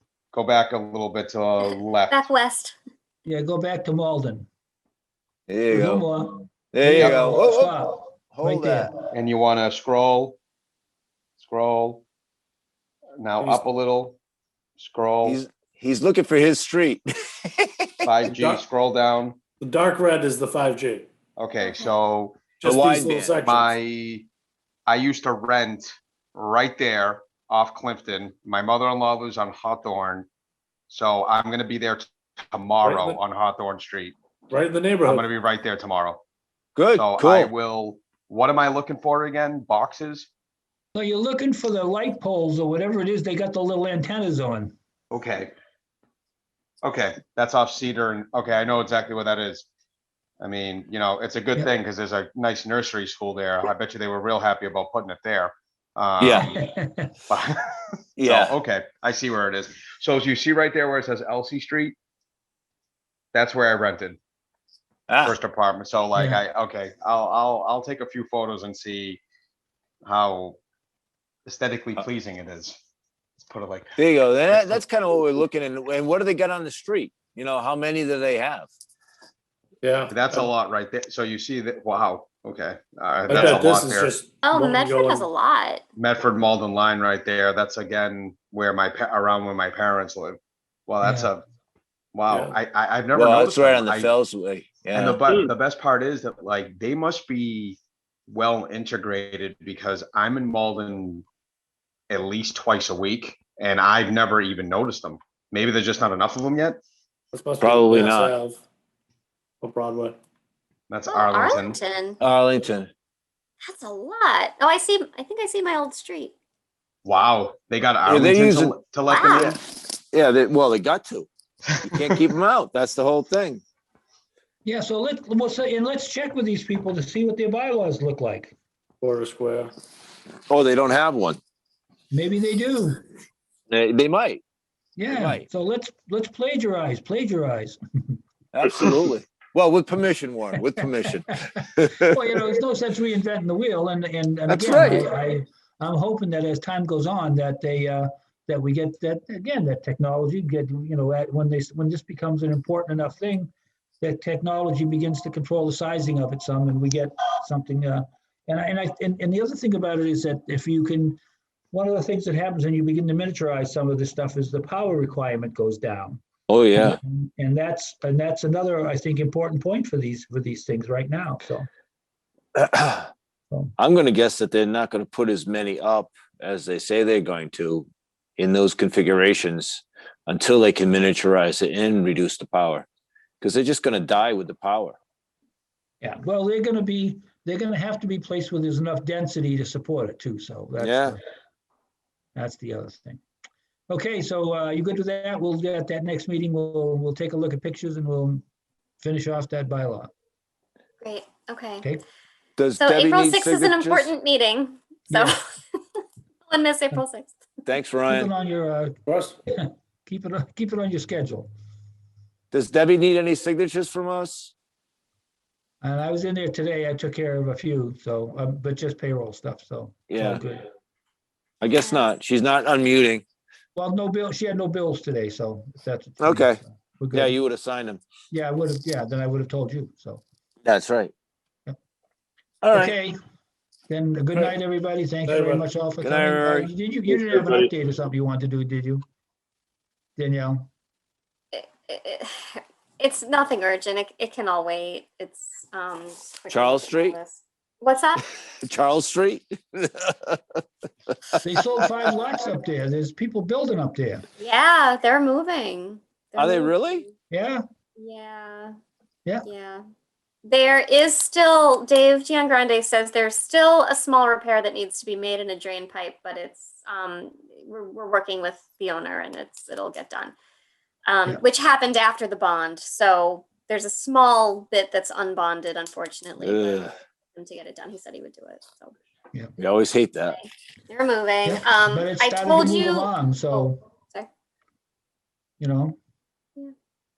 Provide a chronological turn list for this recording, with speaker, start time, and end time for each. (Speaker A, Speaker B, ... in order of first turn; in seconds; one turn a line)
Speaker A: 0.3-2.3
Speaker B: 1.6-2.8
Speaker C: 3.2-4.5
Speaker D: 5.5-6.1
Speaker C: 5.7-9.1
Speaker D: 6.7-8.9
Speaker A: 7.0-7.4
Speaker A: 9.1-10.4
Speaker A: 11.4-12.0
Speaker A: 13.2-14.2
Speaker E: 13.4-13.7
Speaker A: 14.8-15.4
Speaker D: 15.2-18.1
Speaker A: 18.0-19.4
Speaker E: 18.3-18.6
Speaker E: 19.6-21.1
Speaker A: 21.4-22.4
Speaker B: 21.6-21.9
Speaker E: 22.6-23.8
Speaker D: 22.6-23.4
Speaker A: 23.4-24.3
Speaker A: 24.9-30.3
Speaker A: 30.9-34.2
Speaker E: 32.8-33.2
Speaker E: 34.5-35.3
Speaker A: 35.0-36.2
Speaker D: 36.8-37.5
Speaker A: 37.0-40.3
Speaker C: 40.9-44.7
Speaker A: 45.1-45.5
Speaker A: 46.8-49.7
Speaker A: 50.4-56.6
Speaker D: 56.2-56.5
Speaker C: 56.4-57.1
Speaker A: 57.3-57.6
Speaker D: 58.2-58.5
Speaker A: 58.2-62.0
Speaker A: 63.3-64.2
Speaker D: 65.1-65.4
Speaker A: 65.2-69.2
Speaker C: 66.2-66.4
Speaker A: 70.0-70.6
Speaker A: 71.5-72.8
Speaker A: 73.4-73.9
Speaker D: 74.0-78.7
Speaker A: 74.5-74.8
Speaker E: 79.8-80.5
Speaker A: 80.1-84.1
Speaker E: 83.3-85.3
Speaker B: 84.4-85.8
Speaker A: 86.0-91.5
Speaker C: 91.0-91.3
Speaker A: 92.1-94.1
Speaker E: 92.3-92.6
Speaker D: 93.1-95.5
Speaker A: 94.9-101.2
Speaker A: 102.1-106.8
Speaker E: 107.3-108.6
Speaker D: 107.6-108.3
Speaker E: 109.6-110.2
Speaker A: 110.9-111.8
Speaker B: 111.1-112.2
Speaker D: 112.2-112.9
Speaker B: 113.7-116.3
Speaker A: 117.0-119.6
Speaker D: 118.0-119.6
Speaker B: 119.1-119.6
Speaker D: 120.1-121.3
Speaker D: 121.8-123.6
Speaker C: 124.7-128.6
Speaker E: 129.0-129.7
Speaker D: 130.5-131.4
Speaker C: 132.1-133.0
Speaker D: 133.7-134.4
Speaker C: 135.0-138.7
Speaker D: 135.1-135.5
Speaker D: 138.5-142.2
Speaker C: 141.1-161.2
Speaker D: 144.5-145.1
Speaker C: 161.7-166.2
Speaker D: 166.5-167.0
Speaker C: 166.8-171.7
Speaker D: 172.6-173.1
Speaker D: 173.8-177.9
Speaker D: 178.4-182.9
Speaker D: 183.4-185.0
Speaker C: 186.0-191.2
Speaker D: 190.8-191.2
Speaker C: 192.3-193.2
Speaker C: 193.9-198.4
Speaker C: 199.0-200.1
Speaker B: 201.0-201.9
Speaker D: 202.6-204.1
Speaker B: 202.8-205.4
Speaker C: 205.1-205.4
Speaker B: 206.5-207.4
Speaker D: 207.7-208.3
Speaker C: 208.1-211.5
Speaker E: 209.1-209.4
Speaker D: 212.5-214.5
Speaker C: 215.8-220.7
Speaker D: 220.1-220.4
Speaker D: 221.6-223.2
Speaker C: 223.8-227.4
Speaker D: 226.2-226.6
Speaker D: 227.1-228.0
Speaker C: 228.3-230.2
Speaker D: 230.7-231.1
Speaker D: 232.6-232.9
Speaker C: 232.7-233.2
Speaker C: 233.9-239.0
Speaker E: 235.2-235.7
Speaker D: 236.0-236.7
Speaker C: 240.2-240.7
Speaker B: 241.5-248.2
Speaker D: 246.5-247.2
Speaker D: 248.6-250.6
Speaker C: 251.4-254.3
Speaker B: 254.4-257.1
Speaker D: 256.4-257.0
Speaker C: 257.3-257.6
Speaker B: 258.0-258.8
Speaker B: 259.4-259.8
Speaker B: 260.5-270.3
Speaker B: 271.1-278.9
Speaker D: 276.4-276.9
Speaker D: 279.6-280.4
Speaker B: 280.3-284.3
Speaker C: 281.4-283.8
Speaker C: 285.6-286.0